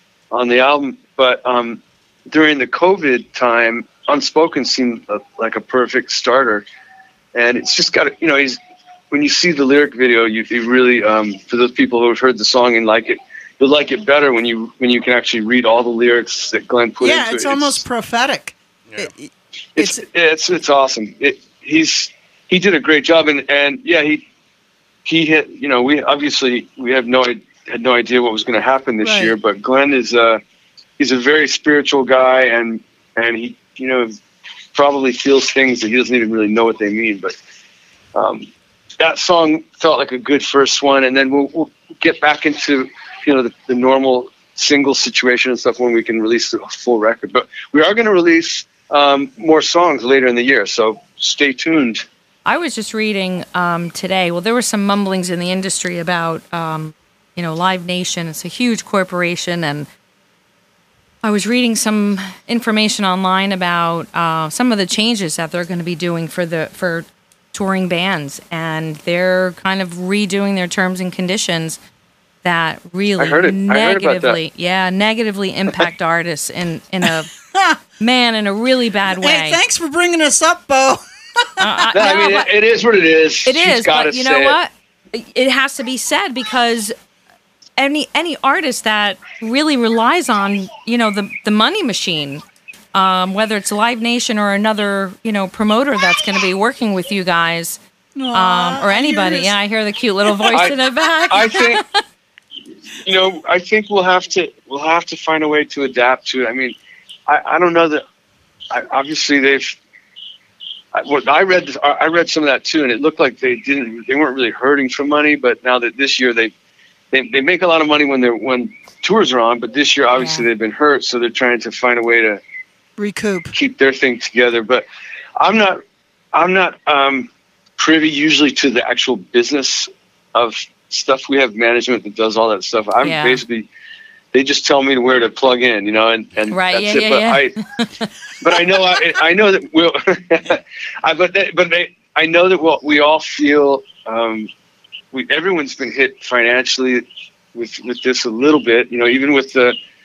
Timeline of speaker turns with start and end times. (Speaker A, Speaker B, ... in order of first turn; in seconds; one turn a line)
Speaker A: 0.3-6.7
Speaker A: 7.3-8.6
Speaker A: 9.1-17.8
Speaker B: 17.0-20.0
Speaker A: 19.8-24.2
Speaker A: 25.1-30.4
Speaker B: 29.0-29.4
Speaker A: 31.0-34.1
Speaker A: 34.7-37.4
Speaker A: 38.1-38.5
Speaker A: 39.0-52.0
Speaker C: 52.5-59.9
Speaker C: 61.2-71.8
Speaker C: 72.4-77.3
Speaker A: 73.2-74.4
Speaker B: 77.5-77.8
Speaker C: 78.0-79.6
Speaker B: 79.1-81.9
Speaker C: 81.6-82.5
Speaker A: 81.9-84.6
Speaker C: 83.5-86.9
Speaker C: 87.8-92.4
Speaker C: 92.9-97.8
Speaker B: 98.2-99.5
Speaker C: 98.3-102.0
Speaker B: 100.3-100.5
Speaker A: 100.5-100.8
Speaker A: 101.3-101.8
Speaker A: 103.0-106.8
Speaker A: 107.3-108.0
Speaker A: 108.7-109.8
Speaker A: 110.9-116.5
Speaker A: 117.1-122.4
Speaker C: 120.2-120.5
Speaker B: 123.0-123.5
Speaker A: 123.5-124.9
Speaker A: 125.4-125.8
Speaker A: 126.3-133.7
Speaker C: 133.0-133.4
Speaker A: 134.3-137.6
Speaker C: 136.5-138.1
Speaker A: 138.4-144.5
Speaker A: 145.1-149.8